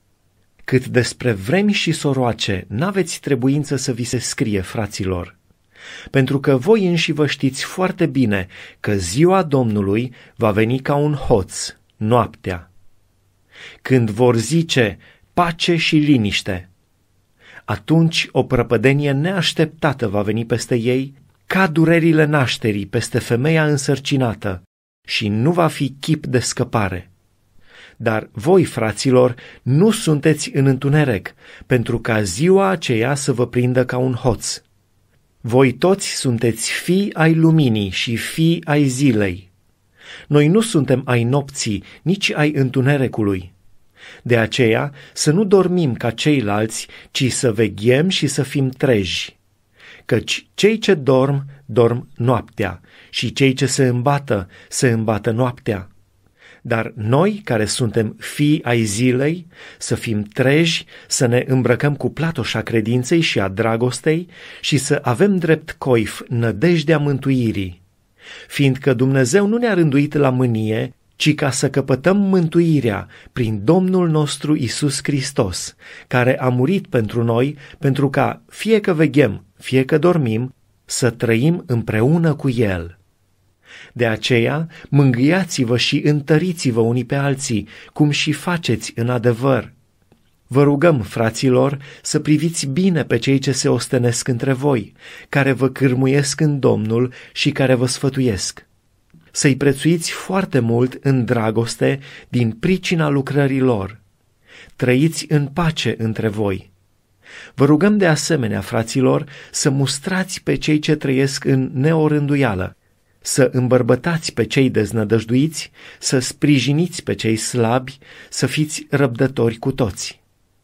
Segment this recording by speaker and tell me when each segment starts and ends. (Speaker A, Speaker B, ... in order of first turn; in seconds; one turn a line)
Speaker A: 0.7-5.4
Speaker A: 6.1-12.7
Speaker A: 13.8-16.7
Speaker A: 17.7-27.1
Speaker A: 28.0-34.6
Speaker A: 35.4-39.5
Speaker A: 40.3-43.5
Speaker A: 44.2-49.4
Speaker A: 50.1-55.9
Speaker A: 56.6-67.8
Speaker A: 68.5-83.0
Speaker A: 84.0-89.7
Speaker A: 90.5-98.7
Speaker A: 99.3-104.0
Speaker A: 104.8-106.7
Speaker A: 107.6-120.2